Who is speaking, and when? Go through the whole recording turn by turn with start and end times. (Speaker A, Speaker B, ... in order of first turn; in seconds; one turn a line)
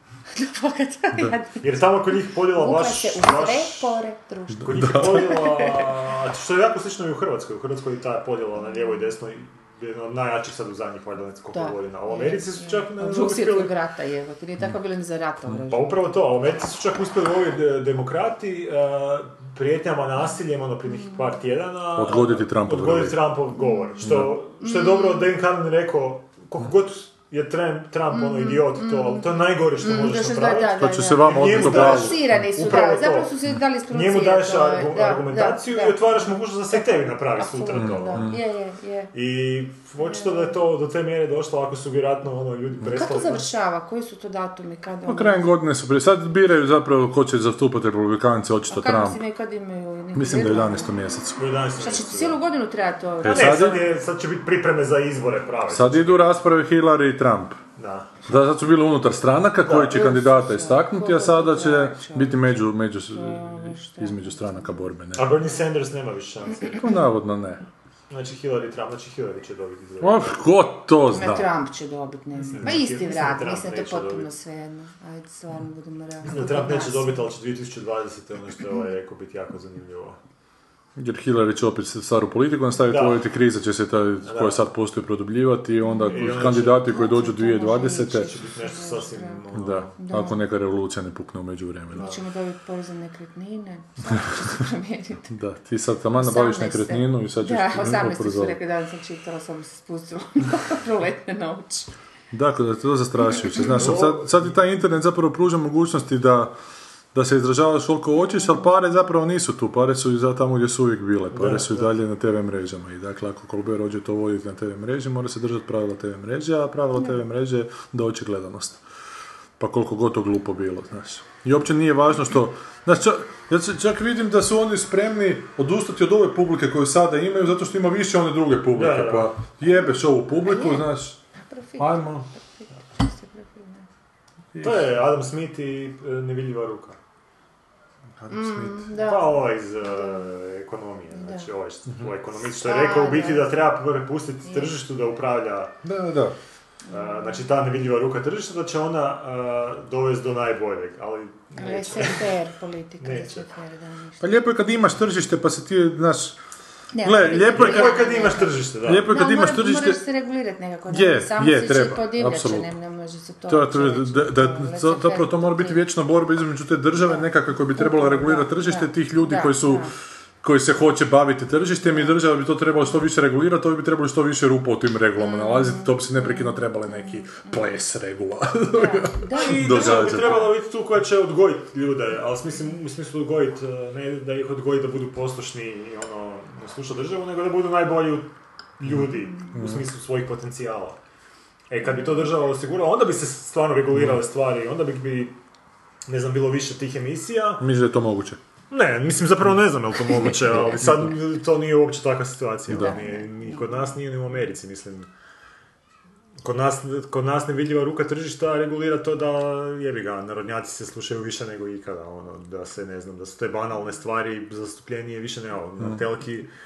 Speaker A: 0.3-1.6
Speaker B: 1.6-4.0
Speaker A: 2.3-5.9
Speaker C: 4.5-5.3
Speaker B: 4.6-13.7
Speaker A: 11.5-15.9
Speaker B: 15.7-33.3
Speaker C: 21.9-23.2
Speaker A: 23.6-23.9
Speaker C: 24.0-24.3
Speaker A: 24.6-25.3
Speaker A: 28.1-39.1
Speaker C: 30.8-32.4
Speaker B: 33.9-38.3
Speaker C: 37.7-38.4
Speaker B: 39.1-43.5
Speaker A: 40.0-40.6
Speaker A: 42.9-45.5
Speaker C: 45.1-49.2
Speaker A: 48.7-50.9
Speaker C: 50.1-51.4
Speaker B: 51.4-52.4
Speaker A: 51.8-53.9
Speaker C: 53.2-53.8
Speaker B: 53.2-56.3
Speaker C: 55.7-57.6
Speaker B: 57.8-58.1
Speaker C: 58.3-65.4
Speaker B: 59.6-60.0
Speaker A: 59.9-64.8
Speaker B: 65.2-66.9
Speaker C: 66.8-67.6
Speaker B: 68.1-70.4
Speaker C: 70.0-71.5
Speaker A: 71.1-77.2
Speaker B: 72.5-74.3
Speaker B: 76.2-80.2
Speaker C: 81.0-88.3
Speaker B: 82.9-83.2
Speaker B: 84.2-84.6
Speaker A: 85.8-89.4
Speaker B: 86.1-86.9
Speaker B: 88.2-89.9
Speaker C: 89.5-92.1
Speaker A: 90.0-90.4
Speaker A: 91.9-95.3
Speaker C: 95.3-98.6
Speaker A: 96.2-101.9
Speaker C: 102.3-106.6
Speaker B: 103.6-104.5
Speaker C: 107.1-118.8
Speaker A: 108.4-108.6
Speaker B: 111.3-111.9
Speaker C: 119.6-131.2
Speaker B: 128.7-129.3
Speaker A: 130.4-133.8
Speaker C: 131.8-132.3
Speaker C: 134.5-134.8
Speaker B: 134.6-137.0
Speaker C: 138.2-138.9
Speaker A: 138.3-140.3
Speaker B: 139.0-145.7
Speaker A: 141.1-141.4
Speaker A: 142.6-143.4
Speaker C: 145.8-146.3
Speaker A: 146.9-147.4
Speaker B: 146.9-152.3
Speaker A: 151.6-154.3
Speaker B: 153.0-153.5
Speaker C: 154.2-156.4
Speaker A: 156.9-158.5
Speaker C: 157.0-158.1
Speaker B: 157.5-159.1
Speaker C: 158.8-160.0
Speaker A: 159.1-165.8
Speaker C: 160.9-162.7
Speaker C: 163.5-169.9
Speaker A: 167.0-169.9
Speaker C: 170.4-180.4
Speaker A: 171.8-172.2
Speaker A: 175.2-177.5
Speaker A: 178.7-180.5
Speaker B: 179.4-191.0
Speaker C: 188.8-189.8
Speaker B: 191.7-195.3
Speaker B: 196.1-197.7
Speaker C: 197.6-198.4
Speaker B: 198.7-205.1
Speaker C: 200.5-201.1
Speaker C: 202.7-202.9
Speaker A: 202.8-203.6
Speaker B: 206.4-216.5